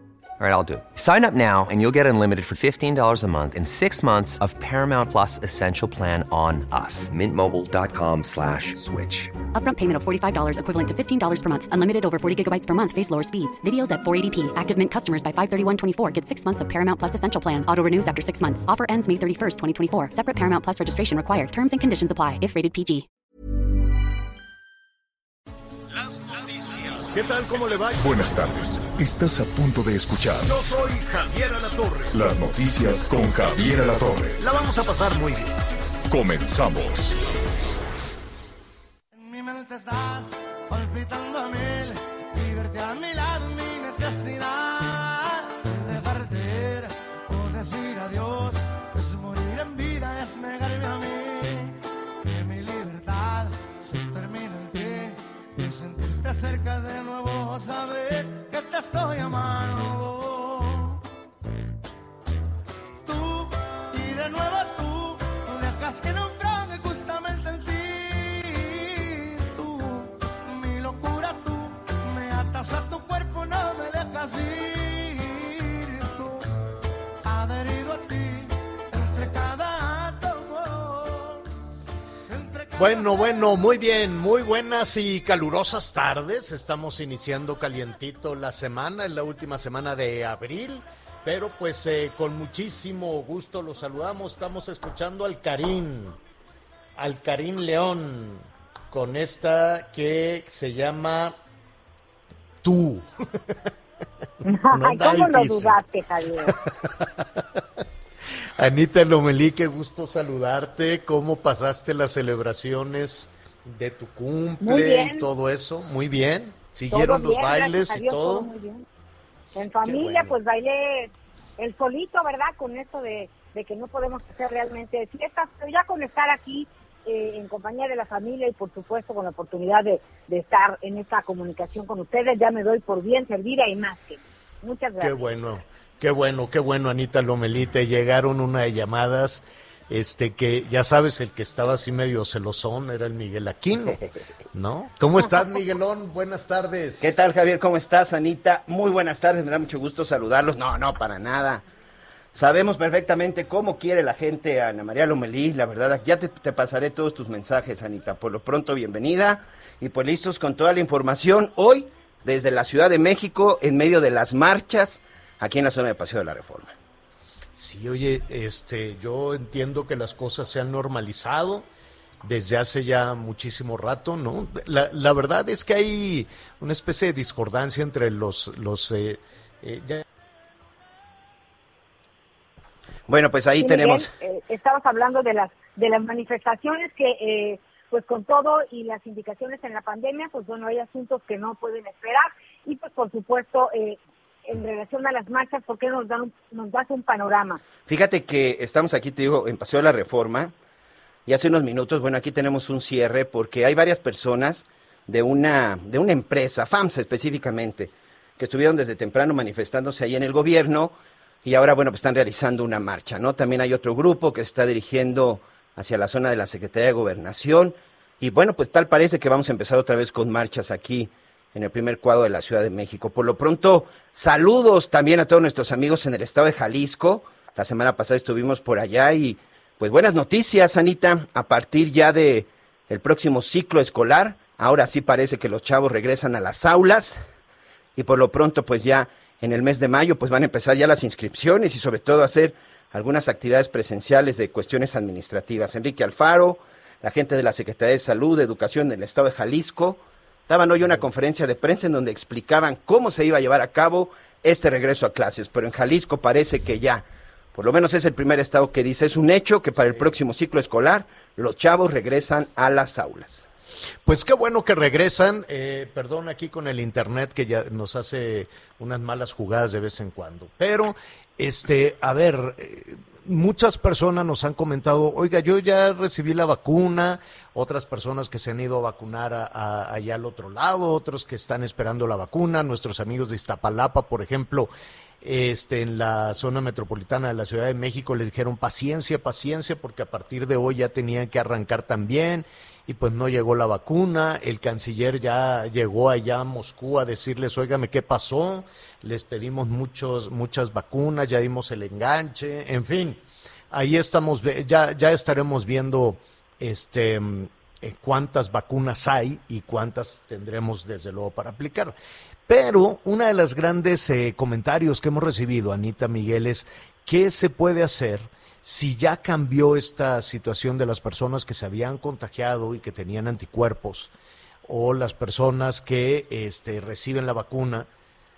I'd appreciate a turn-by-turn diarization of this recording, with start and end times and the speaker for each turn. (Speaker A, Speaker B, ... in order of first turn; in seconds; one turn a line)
Speaker A: 0.4-9.4
Speaker B: 9.4-23.1
Speaker C: 25.9-28.2
Speaker D: 28.0-30.5
Speaker C: 30.4-33.5
Speaker D: 32.1-34.4
Speaker C: 34.4-35.5
Speaker D: 36.1-37.7
Speaker E: 39.1-61.0
Speaker E: 63.0-76.5
Speaker E: 77.2-81.5
Speaker E: 82.3-83.5
Speaker C: 82.8-96.2
Speaker C: 97.0-101.3
Speaker C: 102.6-103.7
Speaker F: 104.4-106.5
Speaker C: 104.7-105.8
Speaker C: 106.4-107.8
Speaker C: 108.6-118.5
Speaker F: 114.6-115.3
Speaker F: 116.9-118.8
Speaker F: 119.5-135.1
Speaker C: 119.8-120.3
Speaker C: 135.0-147.2
Speaker G: 147.0-151.6
Speaker G: 152.3-166.7
Speaker C: 167.6-171.7
Speaker C: 172.2-180.0
Speaker G: 183.1-184.1
Speaker F: 183.6-197.6
Speaker G: 197.8-200.5
Speaker G: 201.2-210.9
Speaker G: 211.4-237.2
Speaker G: 237.9-257.0
Speaker G: 257.5-263.4
Speaker C: 264.1-284.7
Speaker C: 285.2-311.9
Speaker C: 312.5-324.1
Speaker C: 324.6-327.9